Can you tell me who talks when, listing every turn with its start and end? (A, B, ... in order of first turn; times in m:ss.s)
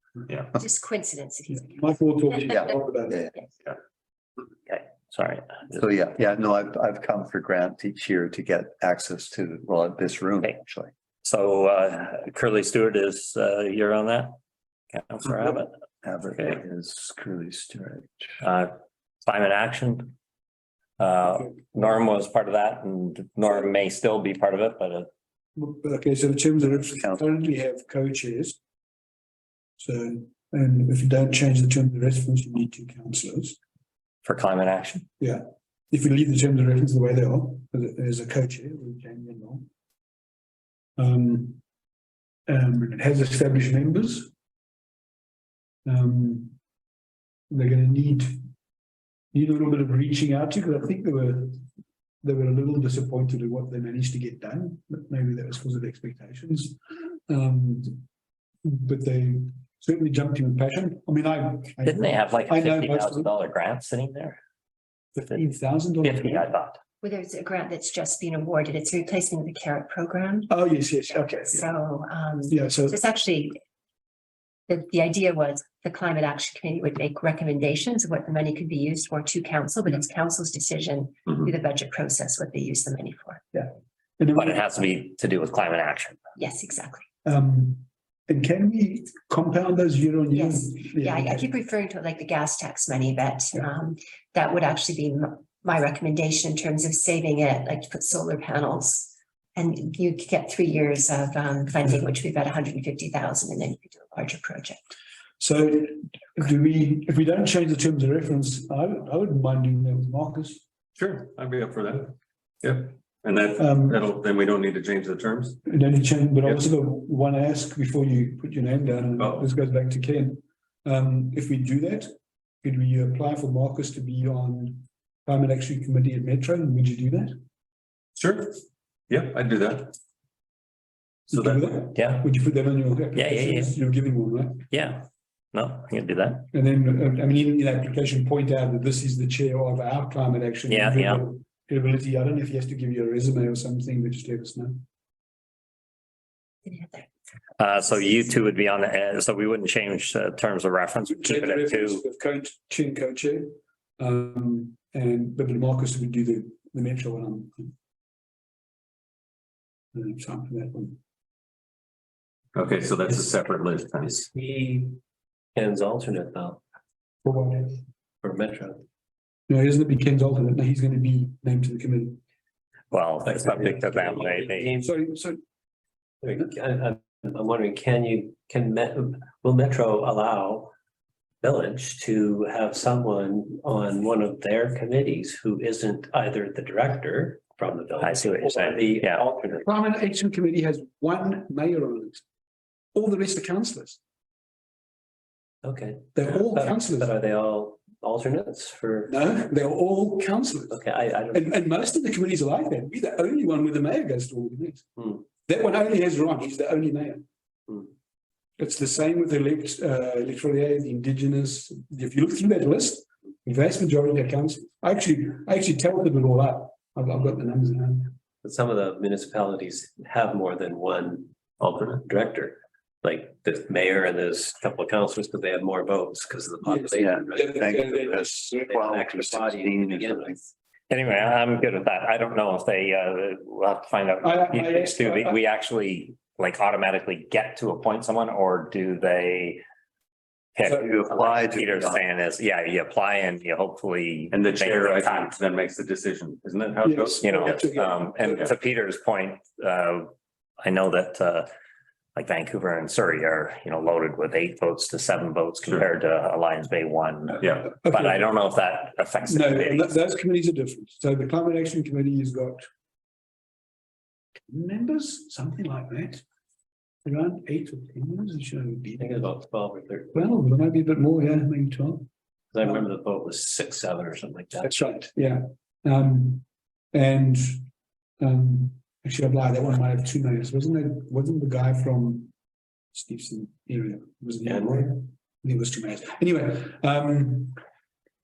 0:00.5-0:01.9 A
0:01.5-0:03.3 B
0:03.1-0:03.3 C
0:04.7-0:05.8 D
0:05.7-0:10.9 C
0:11.2-0:14.4 D
0:14.9-0:15.7 D
0:16.0-0:18.3 C
0:18.4-0:18.7 D
0:19.2-0:20.1 D
0:21.0-0:25.1 D
0:25.6-0:28.6 B
0:26.8-0:27.2 C
0:29.8-0:33.6 B
0:34.2-0:35.1 D
0:35.2-0:39.6 B
0:41.0-0:41.6 B
0:42.5-0:44.3 B
0:45.8-0:46.6 B
0:47.5-0:48.5 B
0:49.3-0:51.6 B
0:52.2-0:58.0 B
0:58.6-1:03.3 B
1:01.8-1:04.4 D
1:05.1-1:06.5 B
1:06.0-1:06.8 D
1:07.0-1:10.5 A
1:10.5-1:11.6 B
1:11.5-1:13.5 A
1:12.5-1:13.0 B
1:14.7-1:23.4 A
1:23.5-1:24.8 B
1:24.3-1:26.2 D
1:26.4-1:27.0 A
1:27.2-1:31.5 B
1:30.3-1:44.8 A
1:45.4-1:50.6 B
1:51.0-1:55.6 E
1:53.6-1:54.0 B
1:55.6-2:02.1 B
1:59.2-1:59.5 E
2:02.6-2:07.3 B
2:08.2-2:10.0 E
2:11.3-2:11.8 E
2:11.3-2:14.7 B
2:11.9-2:12.3 D
2:13.1-2:13.8 D
2:14.7-2:16.5 D
2:16.5-2:24.8 B
2:20.7-2:21.2 D
2:26.6-2:27.1 A
2:27.6-2:32.0 D
2:31.1-2:37.7 B
2:39.9-2:41.0 B
2:42.5-2:44.2 E
2:44.0-2:45.0 F
2:45.5-2:46.6 F
2:47.2-2:47.8 B
2:48.2-2:48.8 F
2:49.5-2:52.2 B
2:52.9-2:54.7 D
2:53.2-2:54.9 F
2:54.8-2:55.4 B
2:56.2-3:00.7 F
3:01.4-3:09.6 F
3:08.0-3:09.2 D
3:09.6-3:12.2 B
3:12.9-3:14.0 B
3:15.6-3:19.1 F
3:16.1-3:17.1 B
3:19.1-3:20.8 B
3:20.7-3:21.5 F
3:21.3-3:27.2 B
3:28.6-3:38.1 B
3:38.4-3:50.4 F
3:46.6-3:48.3 B
3:47.0-3:50.4 C
3:50.9-3:59.6 D
3:54.2-3:55.4 B
4:00.6-4:05.4 D
4:00.7-4:02.0 C
4:04.3-4:07.7 E
4:06.8-4:08.4 B
4:07.2-4:11.5 D
4:12.1-4:19.9 D
4:17.4-4:17.7 E
4:17.7-4:18.3 B
4:19.3-4:22.7 B
4:24.5-4:26.2 B
4:27.0-4:29.3 B
4:29.0-4:30.1 F
4:30.1-4:32.1 B
4:32.5-4:34.7 F
4:34.6-4:37.6 B
4:38.2-4:42.3 B
4:42.9-4:47.6 B
4:44.4-4:44.9 F